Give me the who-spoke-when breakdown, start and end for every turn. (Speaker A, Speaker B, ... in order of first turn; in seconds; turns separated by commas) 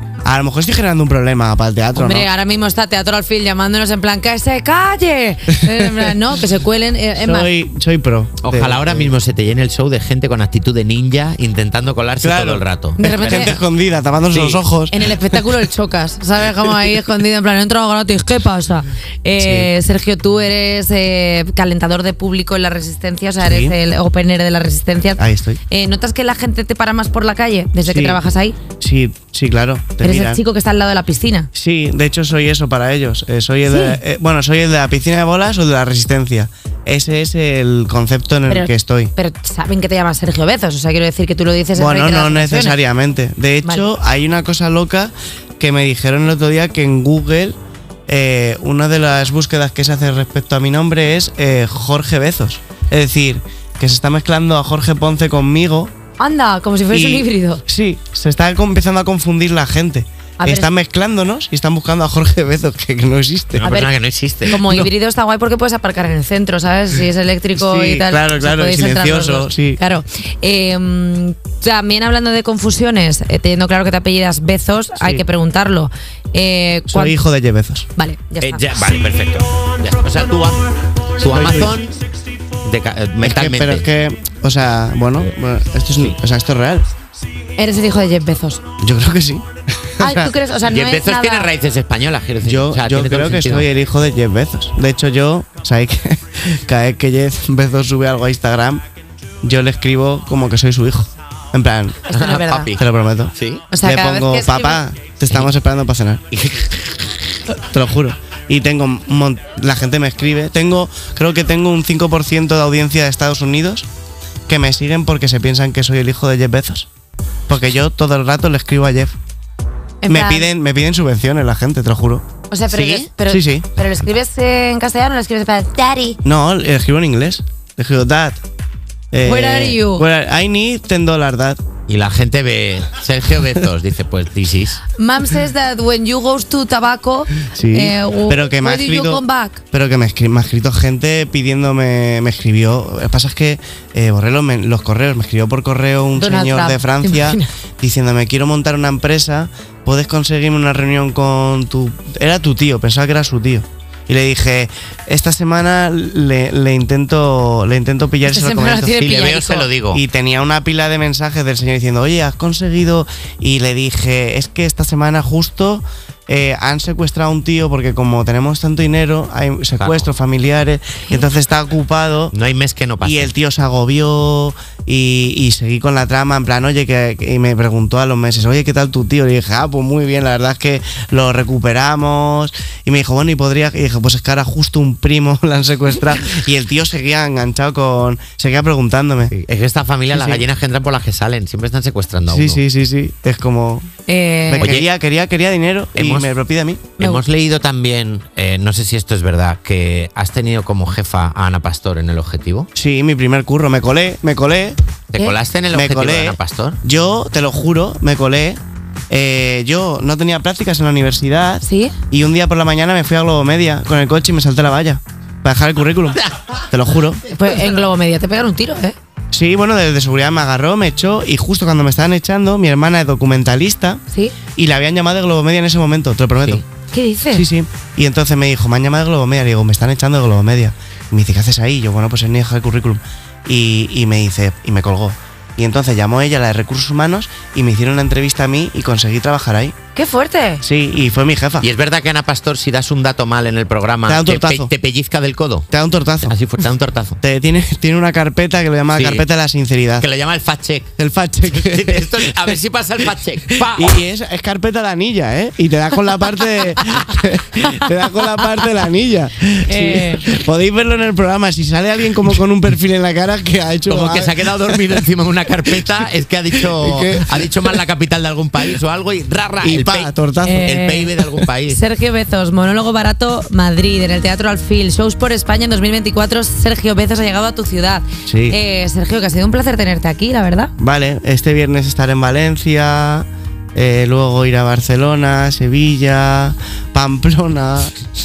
Speaker A: 0.2-2.3, Speaker B: 1.9-7.5, Speaker A: 5.5-6.1, Speaker A: 7.2-9.1, Speaker C: 8.4-13.6, Speaker A: 12.2-15.1, Speaker B: 13.0-13.6, Speaker C: 14.3-14.6, Speaker B: 14.9-28.6, Speaker A: 19.4-19.7, Speaker A: 23.4-23.7, Speaker A: 25.2-25.6, Speaker A: 27.9-28.2, Speaker A: 28.8-30.4, Speaker B: 30.0-31.5, Speaker A: 31.5-39.1, Speaker B: 33.6-34.0, Speaker B: 38.5-42.8, Speaker A: 41.7-47.5, Speaker A: 48.1-55.9, Speaker B: 56.2-57.6, Speaker A: 56.9-63.7, Speaker B: 60.4-60.7, Speaker C: 63.5-64.5, Speaker B: 63.6-63.9, Speaker B: 64.4-77.2, Speaker A: 64.5-64.9, Speaker A: 67.5-69.8, Speaker A: 76.9-77.9, Speaker B: 78.0-78.7, Speaker C: 78.4-82.0, Speaker A: 81.2-81.7, Speaker C: 82.6-83.8, Speaker A: 83.2-86.9, Speaker B: 87.6-88.6, Speaker A: 88.8-90.3, Speaker B: 90.0-91.5, Speaker C: 90.7-93.7, Speaker A: 92.4-98.8, Speaker A: 99.4-102.1, Speaker B: 102.1-102.7, Speaker C: 102.1-103.6, Speaker A: 102.7-106.2, Speaker B: 103.7-104.8, Speaker C: 106.3-107.4, Speaker A: 107.5-113.9, Speaker A: 114.5-116.9, Speaker A: 117.5-119.2, Speaker B: 120.0-120.5, Speaker A: 120.1-123.7, Speaker B: 122.5-126.2, Speaker A: 126.2-128.4, Speaker A: 129.1-131.6, Speaker B: 129.2-130.1, Speaker C: 131.9-134.8, Speaker B: 134.9-139.6, Speaker A: 137.5-158.9, Speaker B: 146.2-147.4, Speaker B: 158.2-159.7, Speaker C: 158.9-160.0, Speaker A: 159.9-172.3, Speaker C: 169.8-170.1, Speaker C: 172.3-173.3, Speaker A: 173.0-189.3, Speaker C: 189.3-192.6, Speaker A: 190.1-190.4, Speaker A: 192.2-193.9, Speaker B: 194.1-194.7, Speaker A: 194.5-196.9, Speaker C: 194.6-194.8, Speaker C: 195.9-196.3, Speaker C: 197.0-202.7, Speaker A: 202.8-204.8, Speaker C: 205.1-206.8, Speaker A: 205.7-208.6, Speaker A: 209.1-217.2, Speaker B: 211.6-211.9, Speaker B: 217.3-218.9, Speaker A: 219.3-224.0, Speaker B: 224.1-224.3, Speaker A: 224.5-226.6, Speaker B: 226.9-227.5, Speaker A: 227.3-239.7, Speaker B: 239.9-240.6, Speaker A: 240.6-241.7, Speaker C: 241.6-245.7, Speaker A: 244.1-244.7, Speaker A: 245.7-246.4, Speaker C: 246.2-247.2, Speaker A: 247.2-250.1, Speaker C: 248.9-249.2, Speaker C: 250.0-250.9, Speaker A: 251.0-252.6, Speaker C: 251.5-254.0, Speaker A: 253.6-265.1, Speaker B: 259.7-260.3, Speaker C: 263.9-271.8, Speaker A: 266.5-267.8, Speaker A: 269.6-270.7, Speaker B: 270.4-271.1, Speaker B: 271.7-280.7, Speaker A: 278.3-278.6, Speaker A: 280.8-287.9